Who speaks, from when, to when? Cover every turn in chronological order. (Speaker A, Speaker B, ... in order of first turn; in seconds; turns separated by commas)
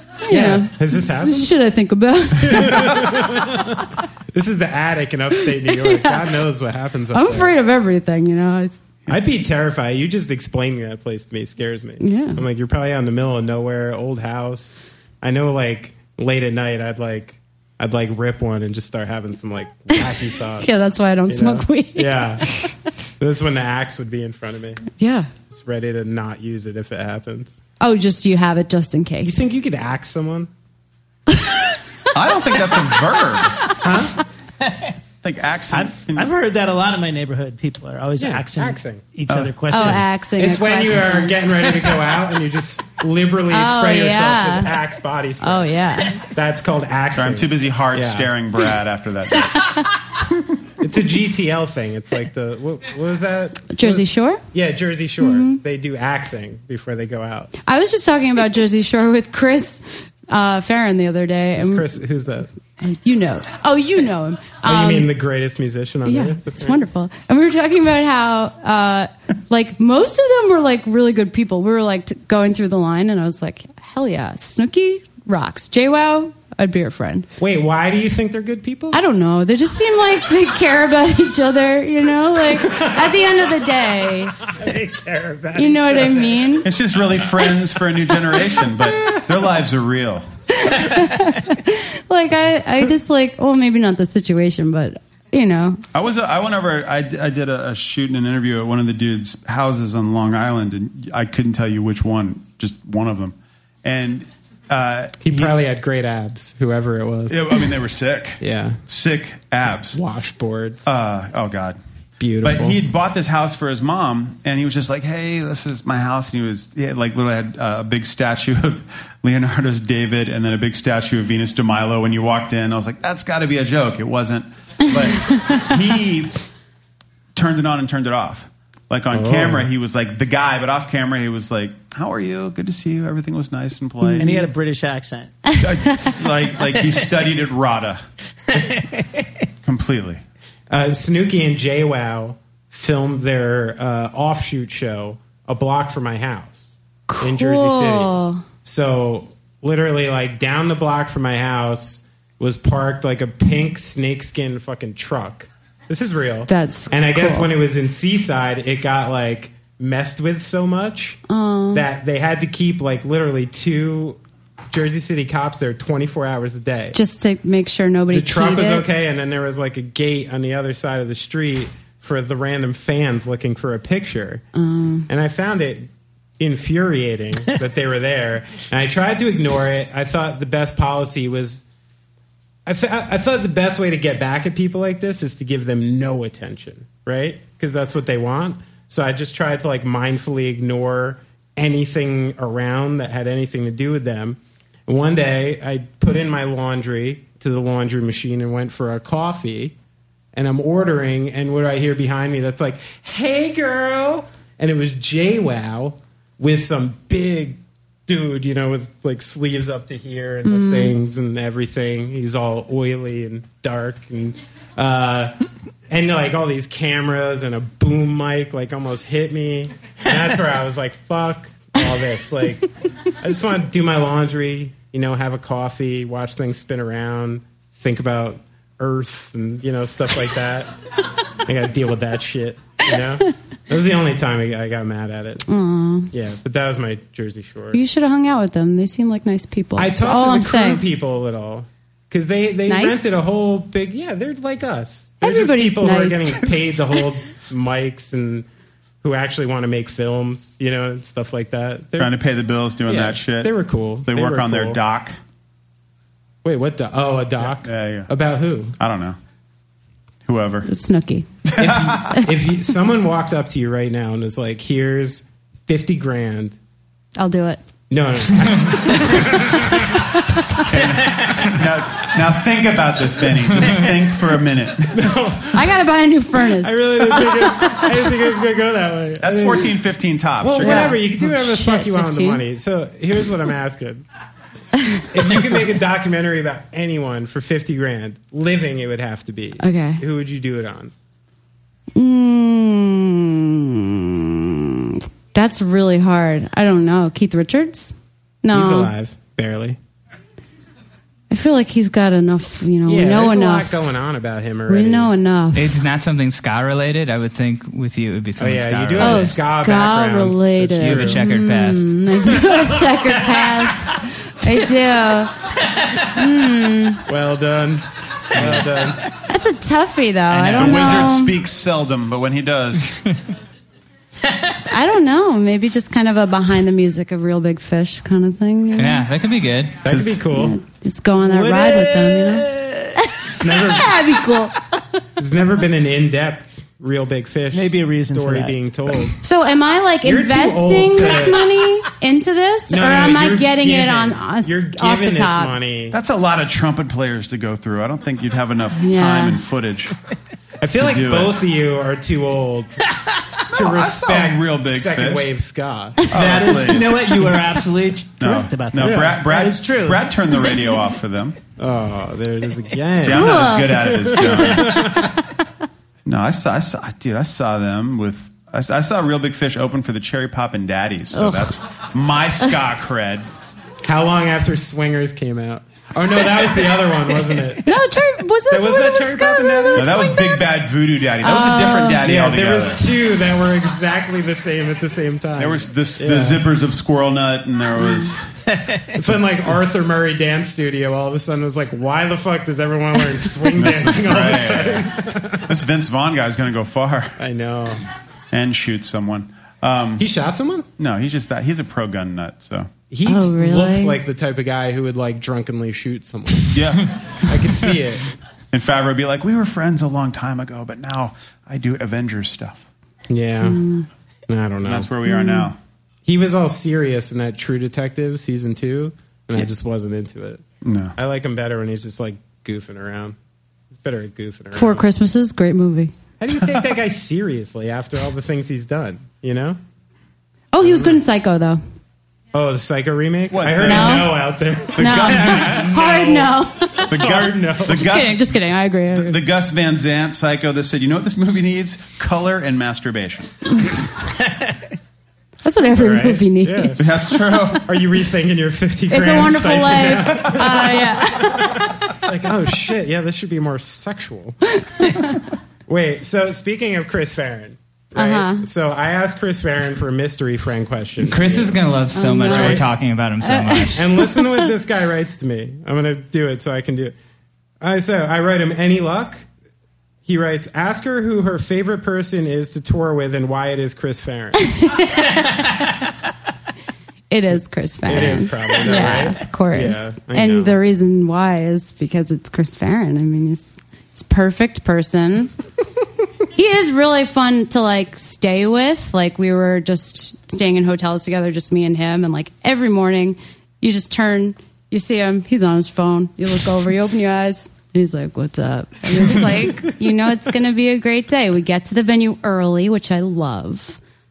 Speaker A: 0.2-3.2, Speaker B: 0.3-1.5, Speaker B: 2.4-7.5, Speaker A: 5.7-6.3, Speaker A: 7.1-8.8, Speaker B: 9.1-20.7, Speaker A: 12.0-12.4, Speaker A: 20.6-22.7, Speaker B: 21.3-22.5, Speaker B: 23.2-24.8, Speaker A: 25.0-25.3, Speaker B: 25.5-27.5, Speaker A: 27.8-29.5, Speaker B: 29.2-30.5, Speaker C: 32.1-33.7, Speaker B: 33.8-34.1, Speaker D: 34.6-34.9, Speaker C: 35.2-36.3, Speaker D: 35.7-40.1, Speaker B: 38.2-39.0, Speaker C: 39.3-39.9, Speaker A: 39.7-41.4, Speaker B: 40.4-48.3, Speaker A: 43.5-44.7, Speaker A: 45.4-46.2, Speaker C: 47.1-49.9, Speaker B: 50.8-57.5, Speaker A: 53.7-54.4, Speaker A: 55.2-55.6, Speaker A: 57.6-61.9, Speaker B: 61.5-62.5, Speaker A: 62.8-65.1, Speaker B: 64.6-66.8, Speaker A: 66.0-77.3, Speaker B: 77.4-79.0, Speaker A: 78.9-84.3, Speaker B: 82.5-83.1, Speaker B: 84.5-86.6, Speaker A: 85.5-86.7, Speaker C: 86.6-90.2, Speaker A: 90.5-95.8, Speaker C: 95.9-105.6, Speaker B: 105.2-107.7, Speaker C: 107.3-110.0, Speaker B: 108.4-108.8, Speaker B: 109.9-110.9, Speaker C: 110.8-111.8, Speaker B: 112.2-112.8, Speaker C: 112.4-126.4, Speaker C: 127.3-134.5, Speaker B: 129.1-129.7, Speaker A: 134.0-134.4, Speaker D: 134.2-135.5, Speaker C: 135.6-138.0, Speaker D: 138.5-139.3, Speaker C: 139.6-140.2, Speaker B: 140.7-161.2, Speaker A: 147.1-148.4, Speaker A: 156.5-157.5, Speaker A: 161.3-161.8, Speaker B: 161.7-164.2, Speaker B: 164.7-167.0, Speaker A: 166.9-168.9, Speaker B: 168.1-174.4, Speaker A: 174.5-175.1, Speaker B: 175.1-181.6, Speaker B: 182.7-199.8, Speaker B: 200.3-215.3, Speaker A: 210.4-210.9, Speaker B: 215.9-222.7, Speaker B: 223.2-230.7, Speaker B: 231.4-235.4, Speaker A: 235.5-236.1, Speaker B: 236.1-237.8, Speaker A: 237.7-240.8, Speaker B: 239.8-248.5, Speaker A: 242.7-243.2, Speaker A: 245.2-246.5, Speaker B: 249.0-252.1, Speaker C: 252.0-255.2, Speaker B: 252.8-254.8, Speaker B: 256.4-258.8, Speaker C: 257.6-258.1, Speaker C: 258.8-259.2, Speaker C: 260.2-260.7, Speaker A: 260.6-261.3, Speaker C: 261.5-262.1, Speaker B: 261.6-266.6, Speaker A: 267.2-267.6, Speaker B: 267.9-270.0, Speaker A: 269.1-270.6, Speaker C: 270.7-275.1, Speaker B: 274.9-275.8, Speaker A: 275.5-277.8, Speaker B: 276.5-279.8, Speaker C: 279.2-281.0, Speaker B: 280.4-284.0, Speaker A: 280.6-282.4, Speaker B: 285.1-290.9, Speaker A: 289.6-290.0, Speaker A: 291.9-298.9, Speaker B: 298.5-299.8, Speaker A: 301.3-303.7, Speaker B: 302.9-305.1, Speaker A: 304.7-305.7, Speaker E: 305.5-309.4, Speaker B: 308.4-311.2, Speaker A: 309.0-315.4, Speaker E: 310.8-312.0, Speaker A: 315.9-317.0, Speaker B: 317.1-319.0, Speaker A: 319.3-321.4, Speaker E: 320.3-320.9, Speaker C: 320.6-323.1, Speaker A: 324.7-329.0, Speaker E: 328.8-329.8, Speaker B: 329.8-330.6, Speaker C: 329.9-330.2, Speaker A: 330.3-334.6, Speaker D: 331.2-333.1, Speaker B: 333.4-333.9, Speaker B: 335.2-339.1, Speaker D: 337.5-338.6, Speaker A: 339.2-345.6, Speaker B: 340.0-341.4, Speaker B: 342.7-346.0, Speaker C: 345.9-349.9, Speaker A: 348.8-349.4, Speaker B: 350.6-352.8, Speaker C: 350.8-351.4, Speaker B: 353.5-356.1, Speaker C: 353.5-355.3, Speaker C: 356.1-357.3, Speaker D: 356.1-360.1, Speaker C: 358.2-361.4, Speaker B: 358.8-359.2, Speaker B: 361.6-363.5, Speaker C: 363.0-365.1, Speaker A: 363.1-364.6, Speaker B: 364.1-365.1, Speaker C: 366.0-373.3, Speaker A: 371.1-371.6, Speaker B: 373.8-377.7, Speaker A: 377.6-380.5, Speaker B: 378.5-380.1, Speaker C: 379.8-382.8, Speaker A: 381.2-382.0, Speaker B: 382.0-386.5, Speaker C: 385.4-388.3, Speaker A: 387.8-388.1, Speaker D: 388.5-388.9, Speaker B: 388.9-395.5, Speaker C: 393.5-397.2, Speaker B: 397.2-397.8, Speaker C: 398.3-400.1, Speaker B: 400.0-400.7, Speaker C: 400.8-402.7, Speaker B: 402.9-408.1, Speaker A: 403.1-404.0, Speaker C: 406.5-406.9, Speaker C: 408.5-412.6, Speaker B: 413.1-413.6, Speaker A: 413.4-413.9, Speaker B: 414.3-414.9, Speaker C: 414.6-415.6, Speaker A: 415.1-415.5, Speaker B: 416.0-420.4, Speaker C: 420.6-420.9, Speaker B: 420.9-423.1, Speaker B: 423.7-424.9, Speaker A: 424.5-425.9, Speaker B: 426.2-429.6, Speaker A: 430.5-431.6, Speaker B: 430.6-431.0, Speaker B: 432.3-436.3, Speaker C: 433.3-434.2, Speaker A: 433.6-434.2, Speaker C: 434.7-435.7, Speaker A: 434.8-436.9, Speaker B: 436.9-437.9, Speaker C: 436.9-438.4, Speaker A: 437.6-439.1, Speaker C: 438.9-443.3, Speaker A: 443.5-443.8, Speaker A: 445.4-446.8, Speaker B: 445.7-447.0, Speaker C: 446.8-447.7, Speaker B: 447.6-454.4, Speaker A: 448.9-451.6, Speaker A: 454.6-455.2, Speaker B: 455.7-461.6, Speaker A: 457.9-458.4, Speaker E: 461.0-463.8, Speaker A: 461.9-462.6, Speaker B: 462.2-462.6, Speaker A: 463.2-464.5, Speaker B: 463.7-466.9, Speaker B: 467.6-469.3, Speaker B: 470.0-474.5, Speaker A: 474.5-475.2, Speaker A: 477.1-485.3, Speaker B: 477.8-480.6, Speaker A: 486.3-503.8